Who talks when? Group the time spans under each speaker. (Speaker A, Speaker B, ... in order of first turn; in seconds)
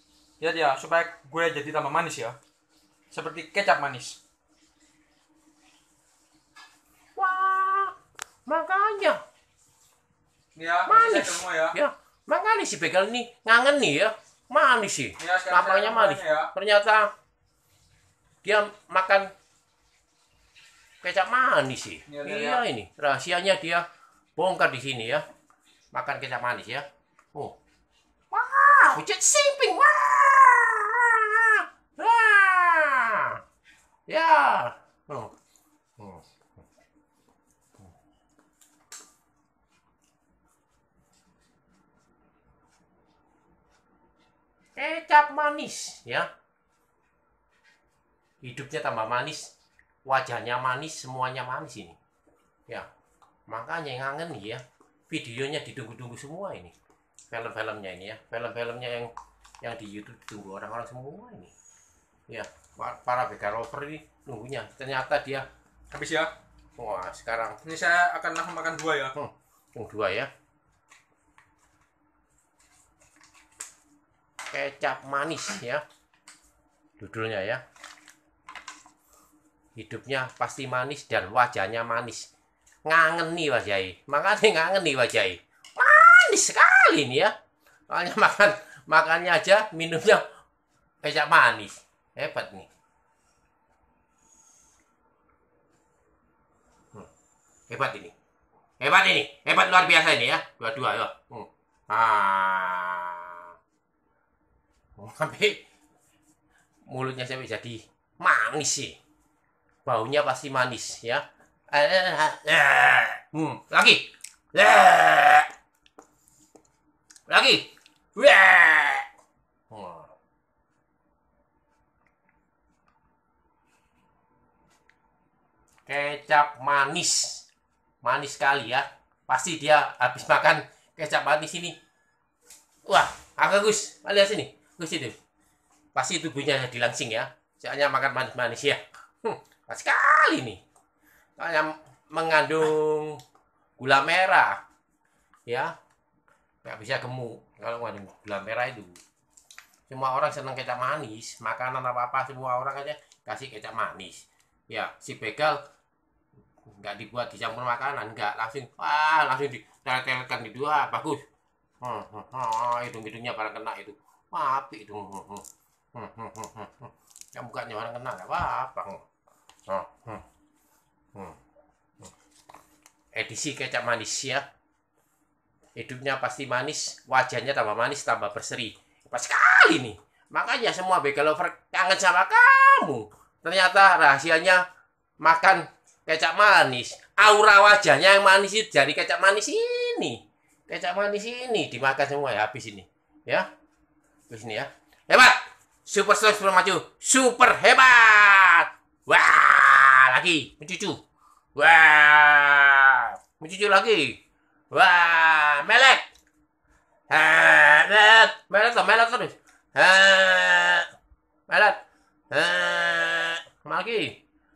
Speaker A: 0.4-2.4, 3.1-4.2, 10.6-11.8, 15.2-16.5, 22.1-22.6, 65.9-66.3, 67.6-69.2
Speaker B: 7.2-7.9, 8.5-9.2, 10.9-17.1, 18.4-19.3, 21.0-23.8, 24.4-25.2, 25.9-27.6, 28.3-33.4, 34.1-35.3, 44.8-46.3, 48.4-49.5, 50.0-52.0, 53.5-56.7, 57.3-61.5, 62.3-65.5, 66.8-67.6, 69.2-70.3, 74.5-75.8, 77.0-77.6, 79.8-82.3, 82.8-87.3, 87.9-90.2, 91.0-92.7, 97.7-98.1, 98.8-103.5, 105.0-105.6, 106.8-109.0, 109.8-115.5, 117.3-119.1, 119.7-120.1, 125.9-127.5, 128.0-131.8, 132.9-135.2, 135.9-140.6, 141.4-143.2, 143.8-144.6, 145.5-145.7, 146.6-148.9, 149.9-155.6, 156.7-161.2, 161.8-169.0, 169.7-170.2, 173.2-174.4, 175.8-184.6, 185.2-193.5, 194.3-201.0, 201.6-204.2, 204.7-206.0, 207.1-210.9, 211.5-211.8, 212.3-214.2